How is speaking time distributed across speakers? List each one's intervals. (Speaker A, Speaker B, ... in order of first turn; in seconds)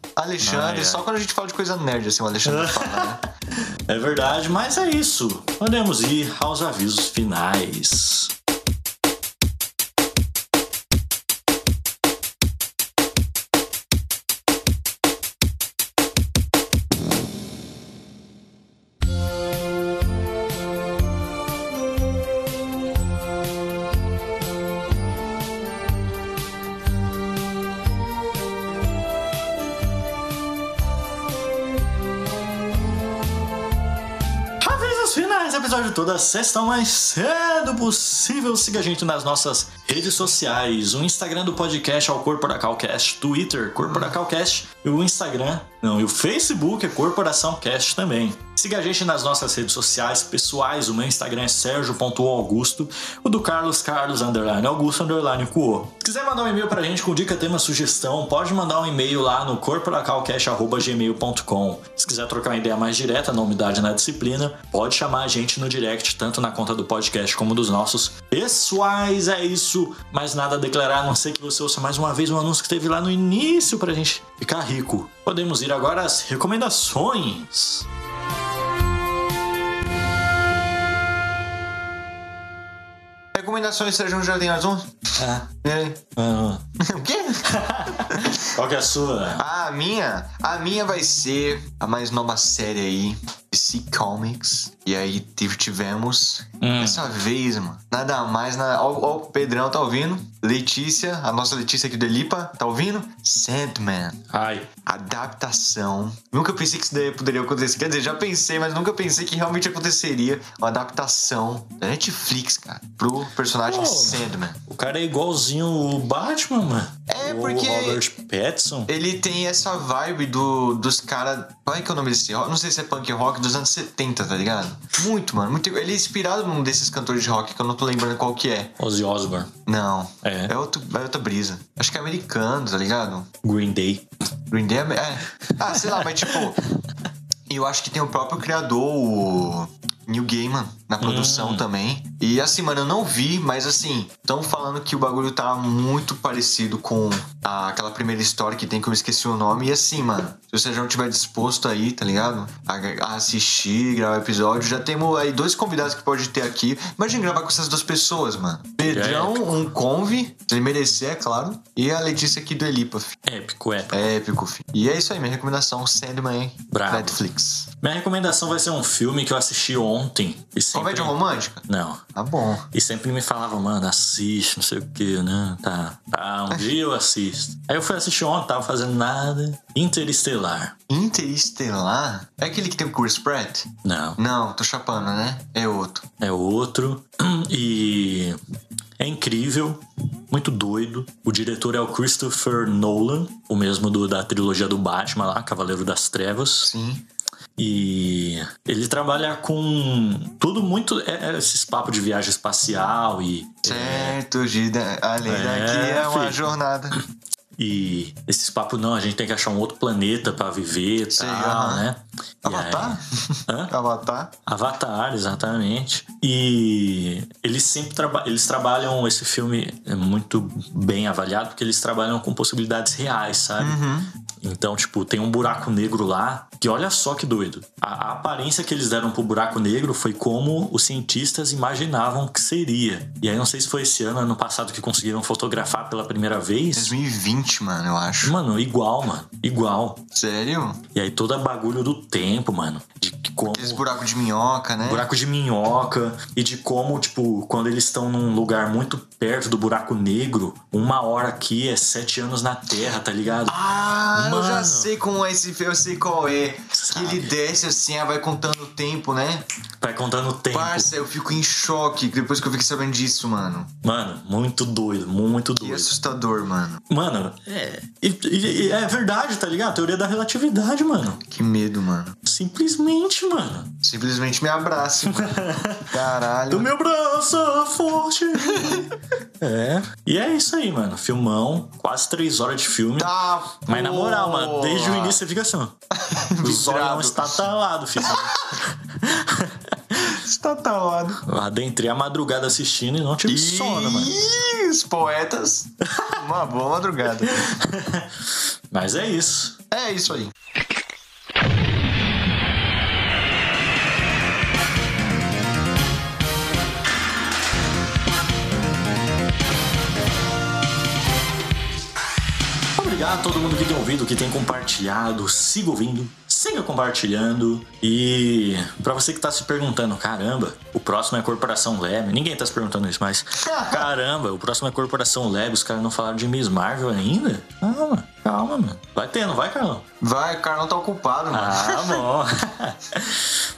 Speaker A: 0.1-3.2, 83.3-84.9, 85.5-86.0, 86.8-87.5, 89.3-104.2, 104.8-114.6, 117.1-118.0, 118.9-128.7, 129.7-133.3, 134.5-136.6, 137.5-163.2, 163.9-167.7, 170.7-172.7, 180.9-186.1, 196.6-197.0, 203.6-207.0, 211.2-211.8, 212.4-214.3, 223.6-224.1, 236.7-238.3, 240.1-240.8, 243.5-245.1, 253.5-259.4, 260.5-263.7, 265.6-266.8, 271.3-272.2, 273.8-276.7, 283.0-285.2, 286.0-287.3, 290.1-291.2, 293.3-297.4, 299.7-300.3, 323.4-323.8, 330.0-332.0
Speaker B: 0.4-1.1, 2.4-3.1, 3.9-8.3, 34.6-77.8, 85.2-85.5, 86.1-86.6, 87.5-89.4, 96.6-97.0, 104.3-104.7, 113.7-118.9, 128.8-129.5, 130.2-130.5, 133.4-134.0, 141.0-141.6, 158.8-159.6, 163.3-164.0, 166.7-167.2, 167.8-172.0, 172.7-180.7, 183.8-184.2, 186.2-188.4, 189.0-196.7, 197.6-204.2, 205.2-206.4, 207.6-213.7, 214.4-223.8, 224.4-236.9, 238.2-240.0, 240.9-243.8, 244.8-253.6, 254.1-254.9, 256.7-257.3, 259.8-260.9, 263.8-265.9, 266.9-271.2, 272.2-273.7, 275.2-275.9, 276.5-278.9, 279.4-283.1, 283.6-285.8, 286.4-290.0, 291.2-294.1, 297.4-298.1, 298.7-299.6, 312.8-329.8, 331.3-333.4